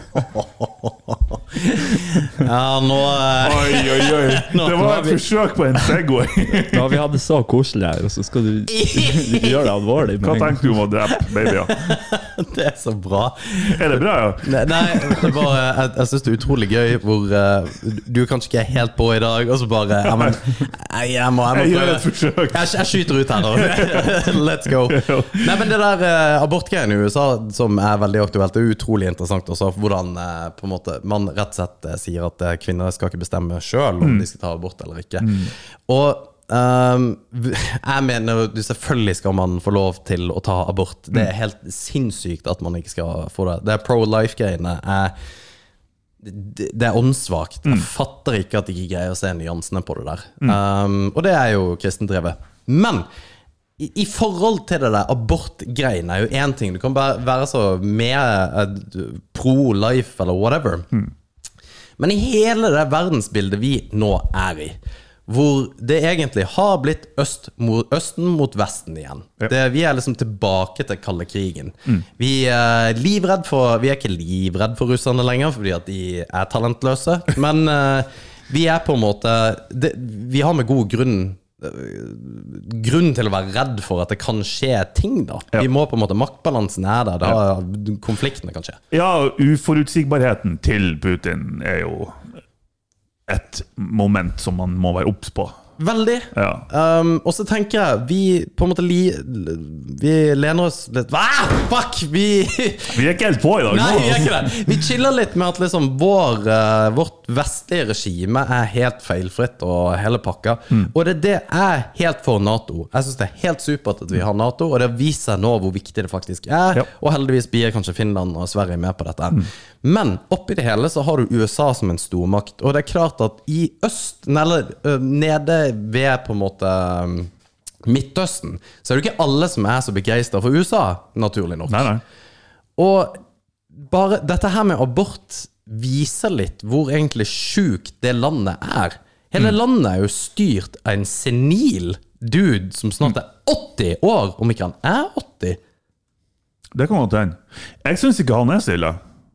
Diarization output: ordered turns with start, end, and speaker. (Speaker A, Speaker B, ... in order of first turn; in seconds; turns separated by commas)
Speaker A: 0.1-5.2, Speaker B: 3.4-7.0, Speaker C: 6.5-10.8, Speaker A: 8.7-9.7, Speaker B: 10.2-11.8, Speaker A: 11.1-13.8, Speaker B: 13.6-15.5, Speaker A: 14.4-45.2, Speaker B: 20.0-20.4, Speaker B: 21.5-25.6, Speaker B: 34.0-34.3, Speaker B: 35.2-35.5, Speaker A: 46.2-53.1, Speaker A: 53.8-60.9, Speaker A: 62.0-88.8, Speaker B: 88.9-92.3, Speaker B: 93.3-95.6, Speaker A: 95.8-103.0, Speaker B: 96.3-96.7, Speaker B: 102.9-104.5, Speaker A: 103.7-127.3, Speaker A: 127.8-131.9, Speaker B: 131.7-132.0, Speaker A: 132.8-133.2, Speaker A: 133.8-145.6, Speaker B: 146.7-149.0